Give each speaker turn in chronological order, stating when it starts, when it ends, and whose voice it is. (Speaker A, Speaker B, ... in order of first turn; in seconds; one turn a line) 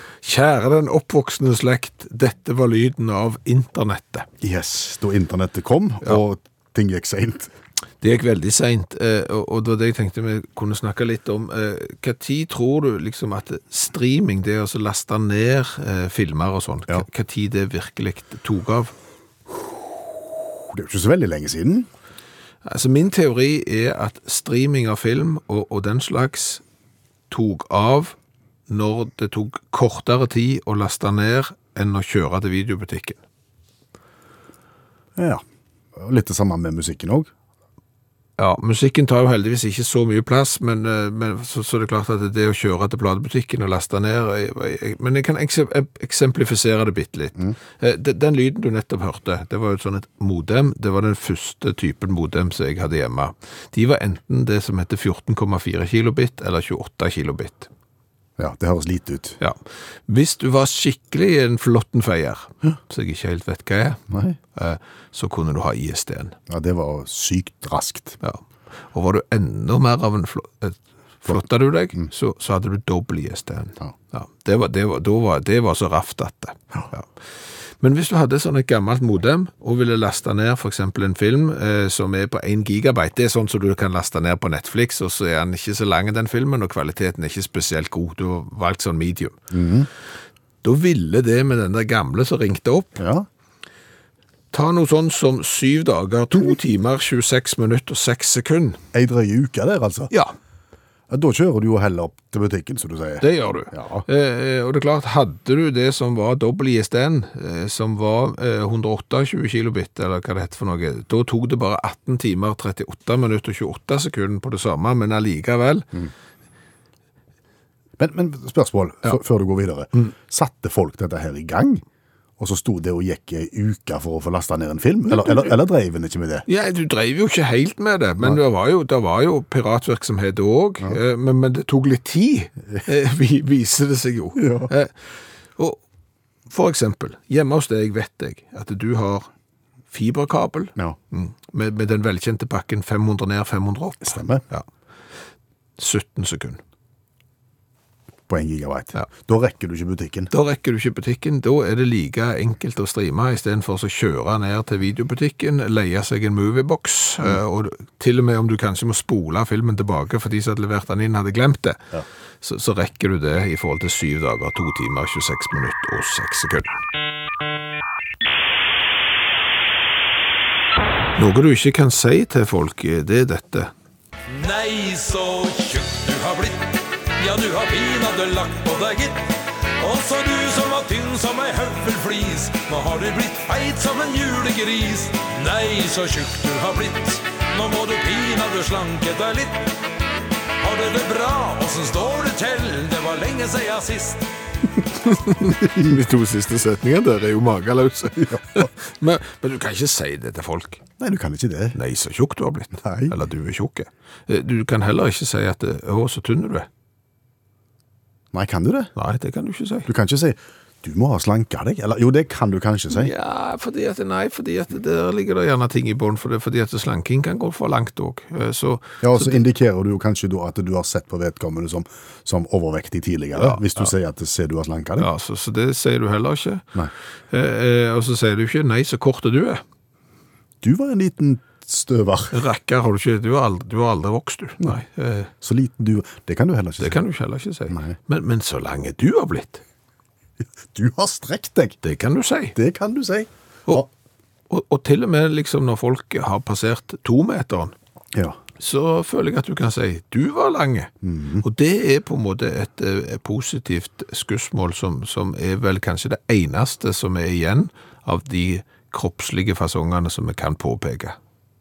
Speaker A: 0.2-4.3
Speaker B: 4.4-7.5
Speaker A: 8.0-18.9
Speaker B: 20.7-21.9
Speaker A: 22.6-26.6
Speaker A: 27.3-28.1
Speaker A: 28.7-33.2
Speaker B: 35.2-35.4
Speaker B: 36.0-37.3
Speaker A: 38.4-57.7
Speaker B: 58.4-59.4
Speaker A: 59.4-64.0
Speaker B: 64.1-64.4
Speaker A: 64.5-66.3
Speaker B: 66.5-68.2
Speaker A: 68.2-77.1
Speaker A: 77.8-89.4
Speaker B: 89.5-89.9
Speaker A: 90.6-93.0
Speaker B: 93.0-93.3
Speaker A: 94.5-98.8
Speaker B: 98.9-100.1
Speaker B: 101.1-104.0
Speaker A: 103.2-115.9
Speaker B: 118.0-121.8
Speaker B: 122.4-126.5
Speaker A: 125.1-125.5
Speaker A: 126.5-134.9
Speaker B: 134.4-134.7
Speaker A: 136.5-139.3
Speaker A: 139.9-144.7
Speaker B: 144.0-144.4
Speaker A: 145.8-146.6
Speaker B: 148.3-150.3
Speaker A: 150.3-166.8
Speaker A: 171.2-173.7
Speaker C: 174.3-189.8
Speaker C: 190.6-194.3
Speaker A: 195.1-200.8
Speaker B: 201.0-201.8
Speaker A: 201.7-206.7
Speaker B: 202.8-203.2
Speaker B: 208.3-208.9
Speaker A: 208.9-209.9
Speaker B: 209.8-213.1
Speaker A: 212.9-219.3
Speaker B: 219.0-225.1
Speaker A: 223.3-223.9
Speaker A: 225.0-226.7
Speaker A: 227.3-229.6
Speaker B: 230.6-232.4
Speaker A: 232.3-235.3
Speaker B: 235.4-237.0
Speaker A: 236.8-239.6
Speaker B: 237.7-237.9
Speaker B: 240.6-241.8
Speaker A: 241.8-242.6
Speaker B: 242.5-243.9
Speaker A: 244.5-247.7
Speaker A: 248.6-250.9
Speaker B: 251.0-251.4
Speaker A: 251.4-261.1